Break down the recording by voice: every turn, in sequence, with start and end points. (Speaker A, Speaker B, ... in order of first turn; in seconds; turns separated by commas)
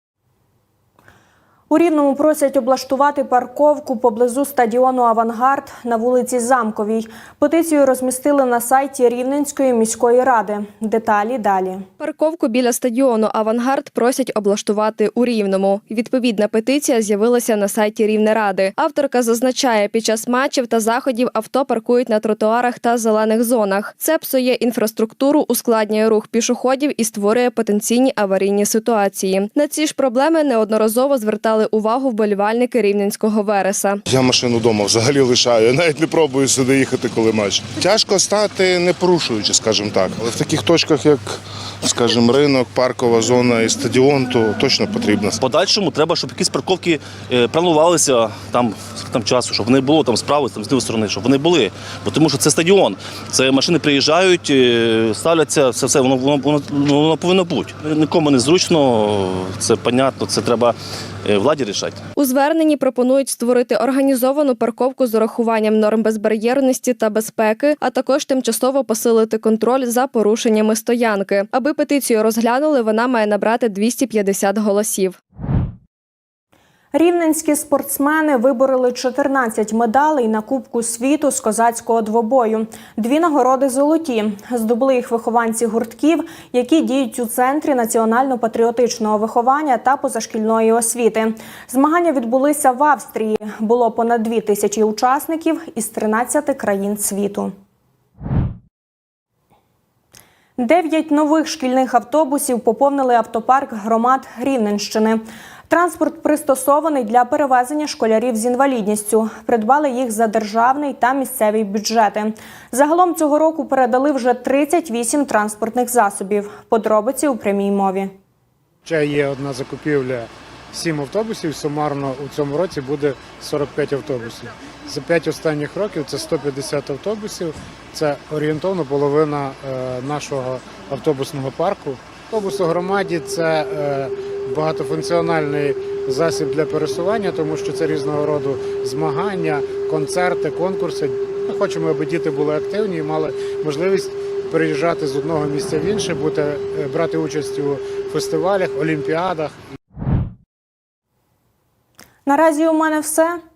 Speaker A: 1.7-11.9, Speaker B: 12.0-34.0, Speaker C: 34.1-45.4, Speaker D: 45.4-62.0, Speaker B: 62.1-75.2, Speaker A: 76.9-97.5, Speaker A: 100.6-118.1, Speaker E: 118.9-149.6, Speaker A: 152.2-153.4